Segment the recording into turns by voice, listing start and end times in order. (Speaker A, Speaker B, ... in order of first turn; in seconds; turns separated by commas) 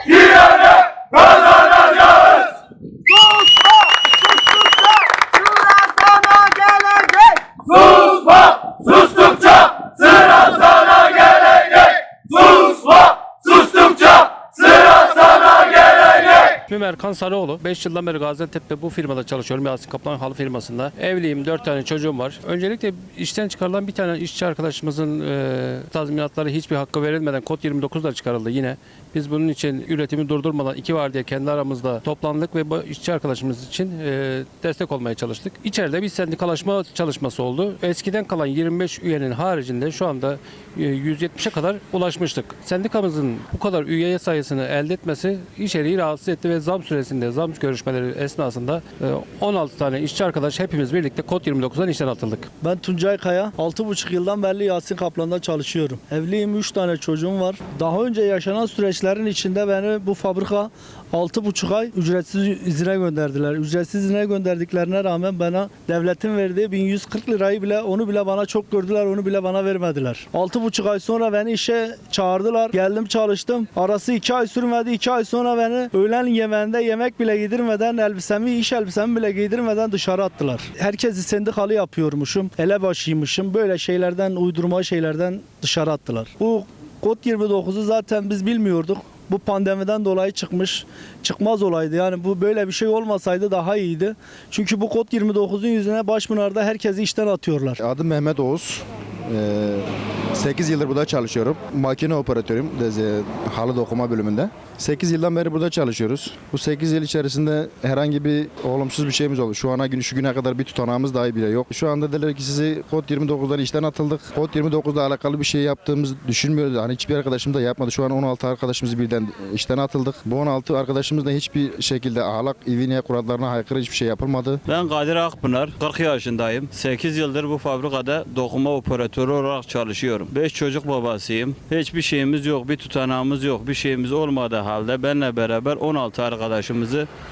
Speaker A: 1.4-2.1, Speaker A: 3.1-7.6, Speaker B: 7.8-8.6, Speaker B: 9.2-9.8, Speaker C: 16.4-52.5, Speaker A: 52.6-97.8, Speaker D: 97.8-124.6, Speaker B: 124.7-137.1